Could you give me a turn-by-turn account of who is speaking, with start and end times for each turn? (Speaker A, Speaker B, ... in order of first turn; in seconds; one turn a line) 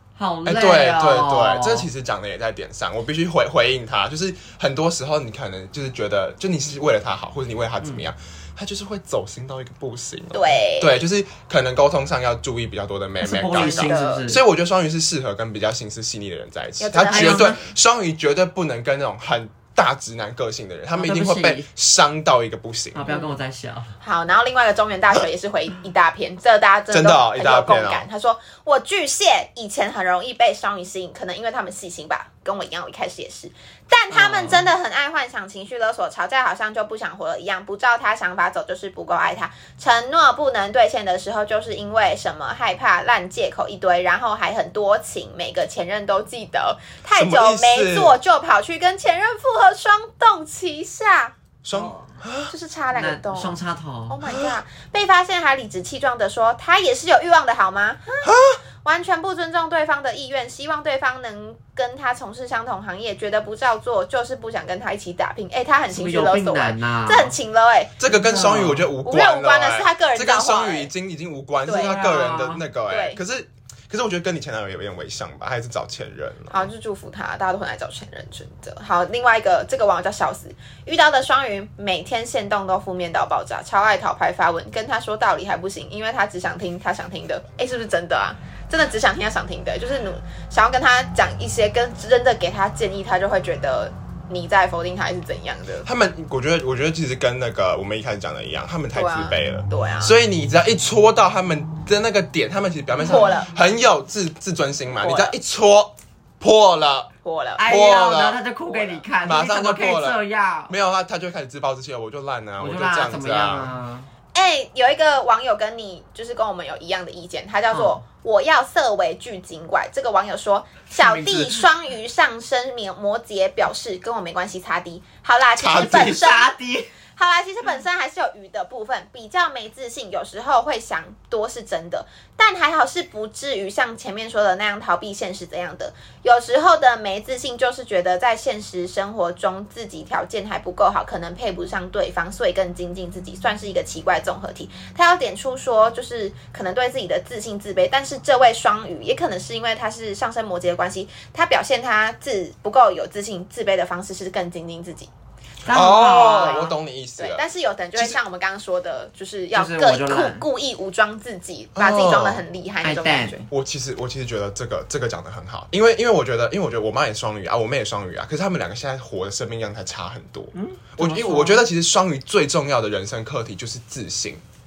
Speaker A: 0.2-1.9
Speaker B: 0.4-23.0
Speaker A: 7.8-8.0
Speaker C: 10.3-10.9
Speaker A: 13.2-14.4
Speaker C: 13.5-14.3
Speaker C: 16.8-17.6
Speaker A: 17.1-17.6
Speaker A: 20.9-21.7
Speaker A: 22.9-23.9
Speaker C: 24.0-51.3
Speaker B: 26.9-28.1
Speaker A: 34.1-34.7
Speaker B: 47.1-48.1
Speaker B: 51.6-52.5
Speaker A: 51.7-52.1
Speaker C: 52.5-58.3
Speaker A: 52.9-54.2
Speaker B: 54.2-54.5
Speaker B: 58.2-58.6
Speaker C: 58.8-67.9
Speaker A: 65.9-67.3
Speaker B: 68.0-76.7
Speaker A: 68.0-68.9
Speaker C: 69.0-70.9
Speaker C: 71.6-72.0
Speaker A: 71.7-72.6
Speaker C: 72.9-73.2
Speaker C: 76.5-95.9
Speaker B: 95.8-107.1
Speaker C: 98.9-100.2
Speaker C: 103.0-103.5
Speaker C: 104.9-105.3
Speaker C: 107.2-107.6
Speaker A: 107.6-110.7
Speaker B: 107.6-113.7
Speaker A: 112.6-114.1
Speaker C: 114.3-126.6
Speaker A: 117.7-118.0
Speaker A: 121.2-121.6
Speaker B: 125.6-126.2
Speaker A: 125.7-126.9
Speaker C: 127.1-155.1
Speaker A: 155.6-156.7
Speaker B: 155.7-158.2
Speaker C: 156.0-163.5
Speaker A: 159.5-160.4
Speaker B: 161.8-162.4
Speaker A: 162.8-163.5
Speaker B: 163.5-174.4
Speaker A: 170.5-171.7